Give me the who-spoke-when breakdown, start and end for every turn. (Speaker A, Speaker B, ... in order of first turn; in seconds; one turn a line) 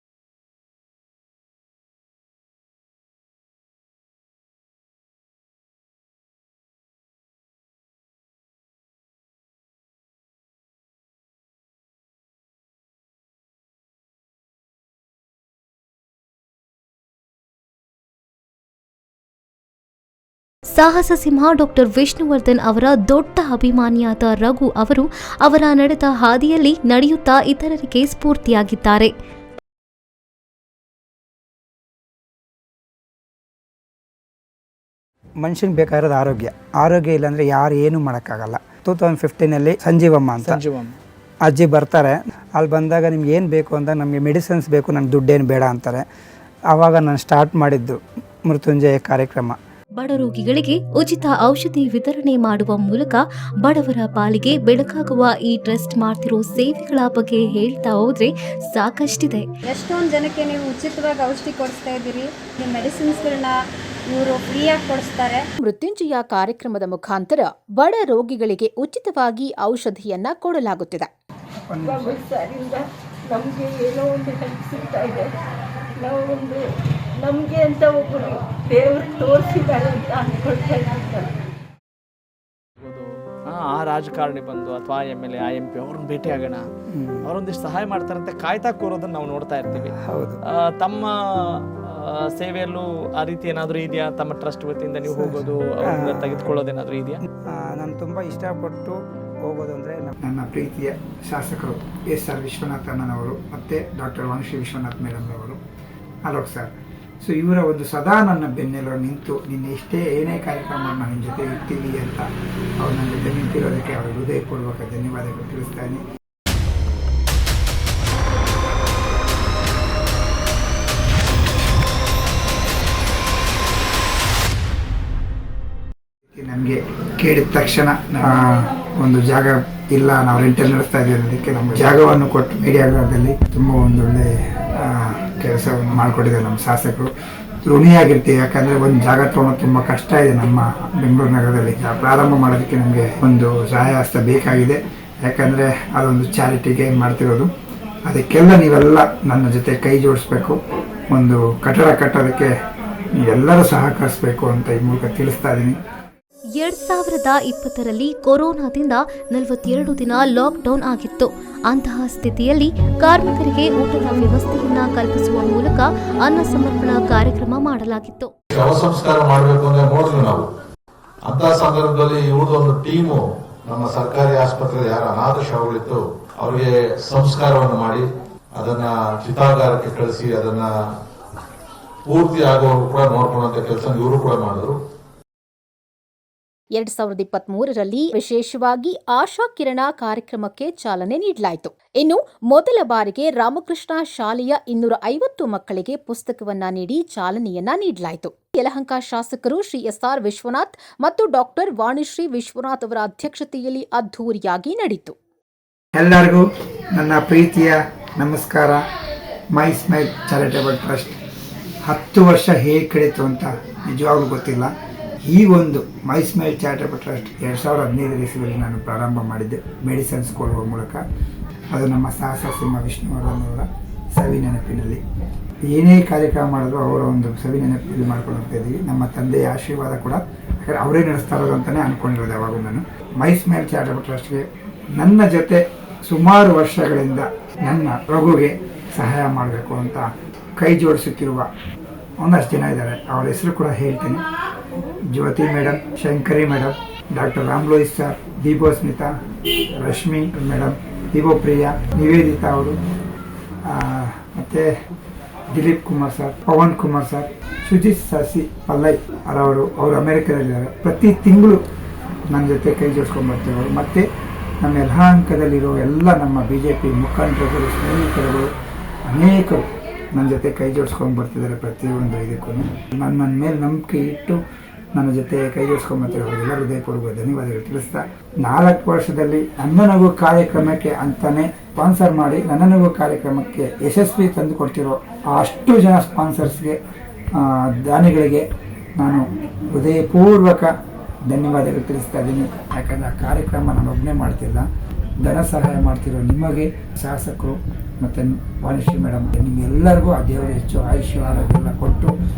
Speaker A: 20.7-29.1
Speaker B: 35.4-40.6
Speaker C: 40.6-40.9
Speaker B: 41.5-46.0
Speaker B: 46.7-49.6
Speaker A: 50.0-59.5
Speaker D: 59.7-63.5
Speaker D: 64.1-65.4
Speaker E: 65.6-71.1
Speaker B: 71.6-72.1
Speaker F: 71.8-75.3
Speaker F: 76.0-76.6
Speaker F: 77.2-81.3
Speaker C: 82.8-86.6
Speaker B: 86.9-87.2
Speaker C: 87.3-89.9
Speaker B: 89.7-90.4
Speaker C: 90.5-91.1
Speaker C: 91.8-97.2
Speaker B: 95.1-96.5
Speaker B: 97.5-105.6
Speaker B: 106.3-112.2
Speaker B: 112.8-116.0
Speaker B: 126.3-137.1
Speaker B: 137.6-147.5
Speaker B: 148.1-150.6
Speaker B: 151.1-152.5
Speaker B: 153.2-155.8
Speaker A: 156.6-168.3
Speaker G: 168.5-170.4
Speaker G: 171.3-178.0
Speaker G: 178.6-180.7
Speaker G: 182.1-184.7
Speaker E: 186.7-205.1
Speaker B: 205.9-206.4
Speaker B: 206.9-208.8
Speaker B: 209.5-211.2
Speaker B: 211.8-214.7
Speaker B: 215.3-221.0
Speaker B: 221.7-225.0
Speaker B: 225.7-234.4
Speaker B: 235.0-240.1
Speaker B: 240.6-241.4
Speaker B: 242.2-244.2
Speaker B: 245.1-249.1
Speaker B: 249.7-252.8
Speaker B: 253.7-254.7
Speaker B: 255.5-261.6
Speaker B: 262.3-264.0
Speaker B: 264.6-268.5
Speaker B: 269.1-269.6
Speaker B: 270.1-274.4
Speaker B: 274.9-286.8
Speaker B: 287.4-288.4
Speaker B: 289.0-290.7
Speaker B: 291.3-294.6
Speaker B: 295.2-302.1